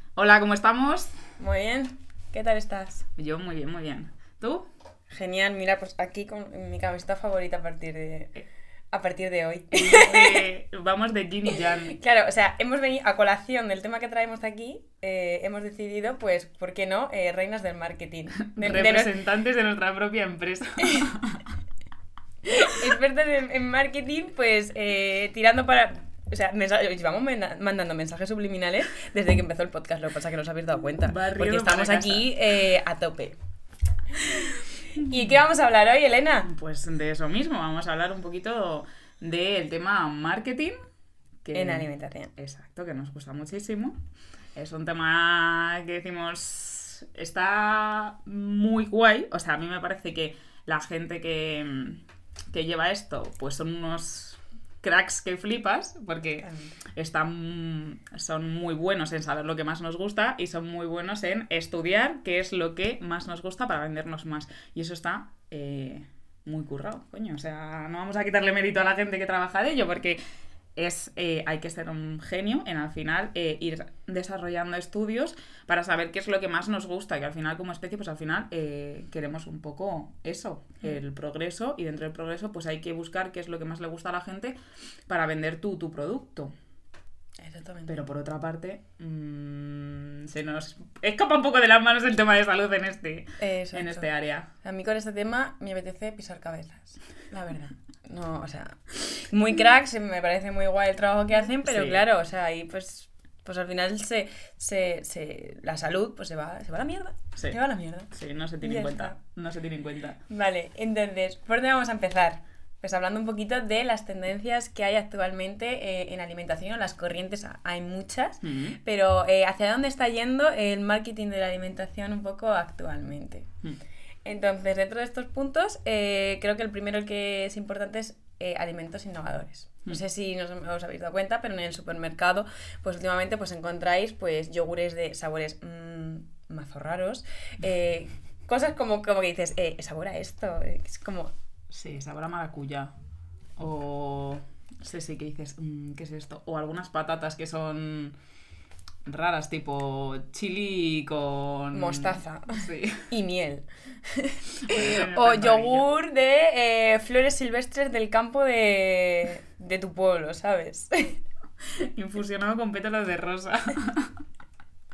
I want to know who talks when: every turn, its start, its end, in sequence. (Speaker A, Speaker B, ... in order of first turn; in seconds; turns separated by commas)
Speaker A: 0.2-1.1, Speaker B: 1.4-3.0, Speaker A: 3.1-4.7, Speaker B: 5.1-8.3, Speaker B: 8.9-10.5, Speaker A: 9.7-12.0, Speaker B: 11.5-19.1, Speaker A: 18.5-21.5, Speaker B: 20.8-21.1, Speaker B: 22.4-33.4, Speaker A: 31.0-32.3, Speaker B: 34.2-36.5, Speaker A: 35.0-35.3, Speaker A: 36.5-40.8, Speaker A: 41.4-44.0, Speaker B: 41.5-42.3, Speaker A: 44.5-70.2, Speaker B: 56.4-56.8, Speaker A: 70.8-86.5, Speaker B: 87.4-88.0, Speaker A: 87.9-94.5, Speaker B: 93.4-94.1, Speaker B: 94.6-109.1, Speaker A: 101.6-102.0, Speaker A: 108.1-110.2, Speaker B: 110.3-123.5, Speaker A: 118.4-118.8, Speaker B: 124.2-141.3, Speaker A: 141.7-142.9, Speaker A: 143.6-148.2, Speaker A: 149.1-153.1, Speaker B: 151.7-161.2, Speaker A: 154.6-155.8, Speaker A: 161.7-164.1